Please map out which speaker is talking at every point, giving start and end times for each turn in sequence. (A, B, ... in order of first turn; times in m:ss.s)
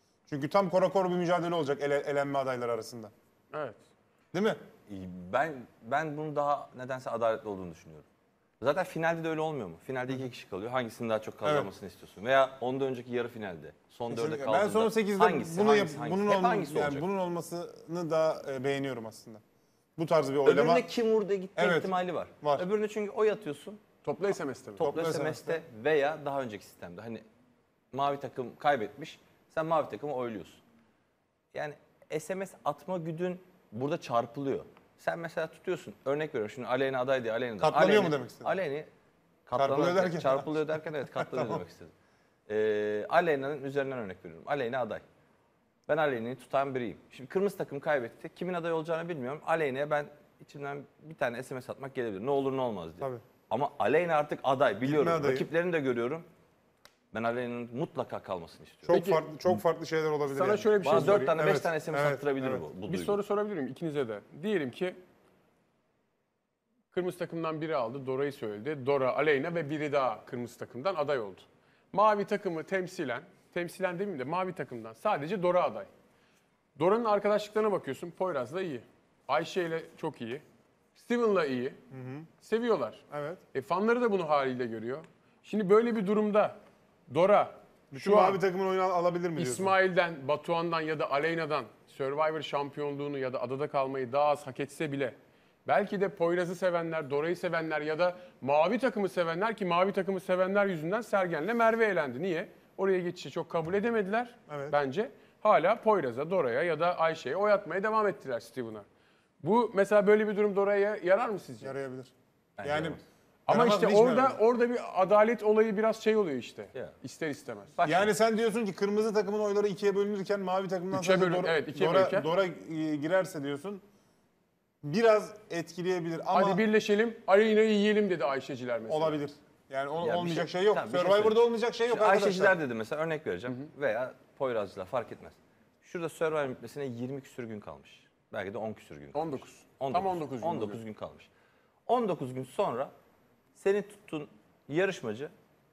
0:00.3-0:03.1 A
0:03.5-0:03.8 B
0:04.3-0:04.6 A
0:04.9-0:08.0 C
0:08.6-0:17.0 C
0:11.4-0:11.7 A
0:14.1-0:19.4 A
0:20.0-0:20.9 A
0:20.4-0:23.8 C
0:21.6-0:22.6 A
0:24.0-0:24.8 B
0:24.8-0:25.6 A
0:24.8-0:27.2 C
0:27.9-0:30.6 C
0:31.5-0:38.9 C
0:37.6-0:38.6 A
0:39.4-0:41.9 C
0:39.6-0:41.6 A
0:42.5-0:45.0 C
0:45.9-0:56.3 C
0:54.8-0:55.5 A
0:57.1-0:59.0 C
0:58.9-1:02.6 A
0:58.9-0:59.2 B
1:00.3-1:01.4 B
1:00.8-1:03.2 C
1:02.9-1:05.0 B
1:06.9-1:15.9 B
1:16.8-1:20.4 B
1:21.0-1:21.8 B
1:21.9-1:22.3 A
1:22.4-1:23.0 B
1:23.1-1:23.4 A
1:23.5-1:28.4 B
1:27.9-1:29.7 A
1:29.4-1:48.8 B
1:44.5-1:44.8 A
1:49.4-1:51.7 B
1:51.6-1:54.4 A
1:52.6-1:53.0 C
1:53.5-1:57.7 B
1:57.8-1:58.1 C
1:57.8-2:03.8 A
2:00.9-2:02.3 B
2:04.8-2:06.6 A
2:06.3-2:09.2 B
2:08.9-2:12.6 A
2:10.0-2:21.3 C
2:19.1-2:20.8 B
2:21.9-2:22.9 C
2:23.5-2:25.3 C